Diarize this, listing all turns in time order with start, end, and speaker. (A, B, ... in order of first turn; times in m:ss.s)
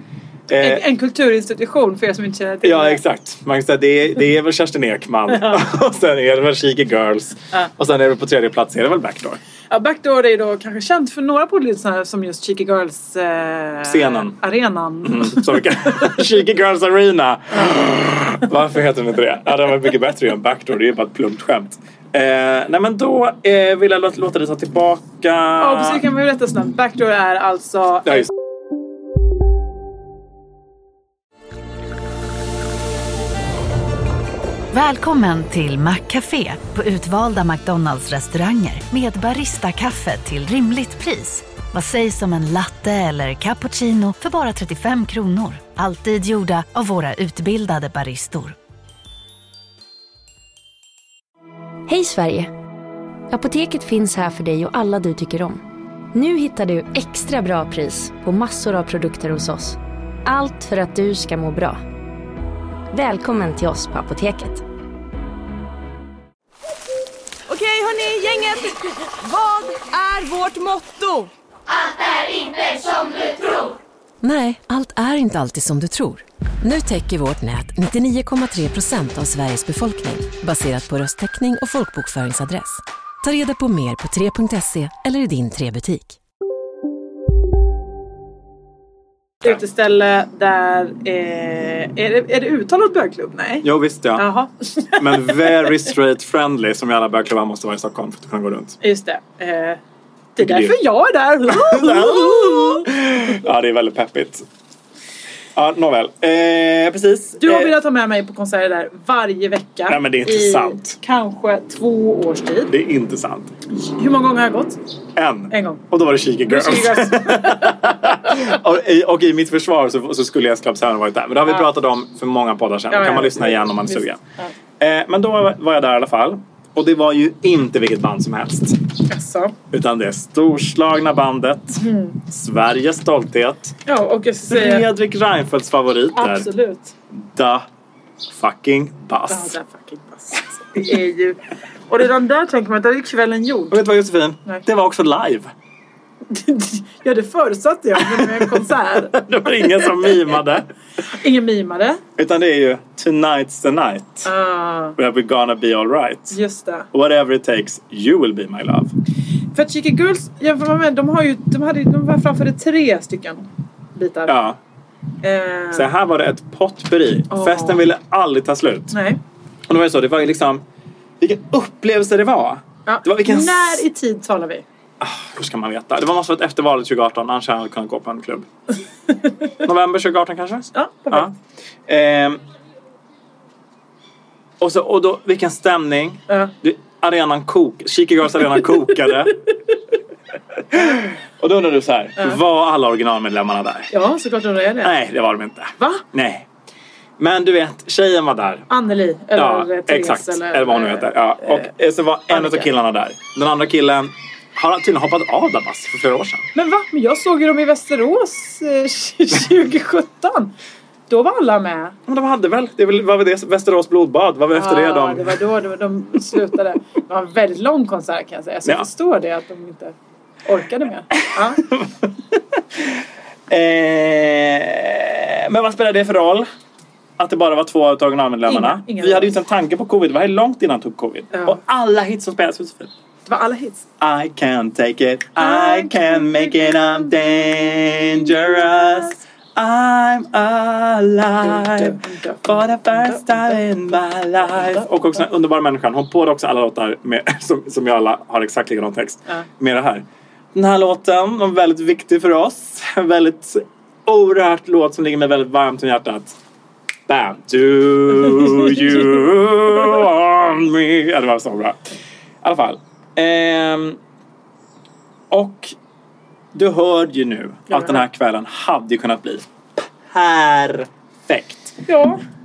0:00.5-0:00.8 A
0:00.6-0:03.0 B
0:02.6-0:09.4 A
0:05.3-0:05.6 B
0:09.7-0:16.2 B
0:13.8-0:14.4 A
0:15.0-0:26.0 A
0:25.6-0:28.3 B
0:34.7-0:48.6 C
0:51.9-0:52.5 D
0:53.3-1:01.8 D
1:02.9-1:04.6 D
1:07.6-1:08.7 B
1:07.7-1:08.5 E
1:09.2-1:11.2 E
1:14.2-1:26.2 F
1:29.4-1:35.7 B
1:33.6-1:34.3 A
1:34.9-1:38.8 A
1:38.8-1:39.8 B
1:40.4-1:42.9 B
1:40.4-1:40.8 A
1:41.4-1:44.4 A
1:45.5-1:47.7 A
1:47.4-1:52.7 B
1:49.9-1:51.0 A
1:52.7-1:53.5 A
1:53.7-1:54.8 B
1:55.2-2:04.2 A
1:55.5-1:55.8 B
1:56.5-1:58.5 B
2:02.9-2:04.5 B
2:04.8-2:08.8 A
2:09.1-2:09.5 B
2:09.7-2:13.8 A
2:11.8-2:12.2 B
2:13.8-2:14.9 B
2:14.5-2:16.5 A
2:16.1-2:16.9 B
2:17.1-2:17.7 A
2:18.3-2:19.5 A
2:19.3-2:23.8 B
2:23.7-2:25.5 A
2:26.3-2:30.1 B
2:27.9-2:30.7 A
2:31.1-2:32.0 B
2:32.2-2:34.3 A
2:34.2-2:35.0 B
2:35.0-2:36.4 A
2:36.3-2:36.9 B
2:36.9-2:38.9 A
2:39.5-2:44.3 B
2:44.2-2:44.6 A
2:45.2-2:45.9 B
2:45.7-2:49.0 A
2:47.3-2:47.8 B
2:48.9-2:49.2 B
2:49.7-2:50.6 A
2:51.2-2:53.8 A
2:52.8-2:54.6 B
2:55.0-2:58.5 A
2:59.6-3:01.3 A
3:00.7-3:01.3 B
3:01.9-3:02.4 A
3:04.6-3:09.4 A
3:10.7-3:13.9 A
3:13.9-3:14.9 B
3:14.8-3:16.5 A
3:15.8-3:16.0 B
3:17.2-3:18.7 A
3:18.7-3:21.7 B
3:19.3-3:26.4 A
3:22.3-3:22.7 B
3:26.5-3:30.5 B
3:31.1-3:32.0 B
3:32.1-3:35.4 A
3:34.5-3:41.7 B
3:41.6-3:41.9 A
3:43.5-3:46.5 A
3:47.2-3:52.9 A
3:48.4-3:49.3 B
3:51.3-3:51.6 B
3:53.3-3:53.8 B
3:54.0-4:16.4 A
3:55.4-3:59.2 B
4:01.4-4:03.6 B
4:04.5-4:04.8 B
4:17.1-4:21.8 A
4:22.4-4:24.0 A
4:25.3-4:25.7 A
4:26.5-4:29.4 A
4:27.7-4:28.0 B
4:30.1-4:31.7 A
4:31.8-4:32.2 B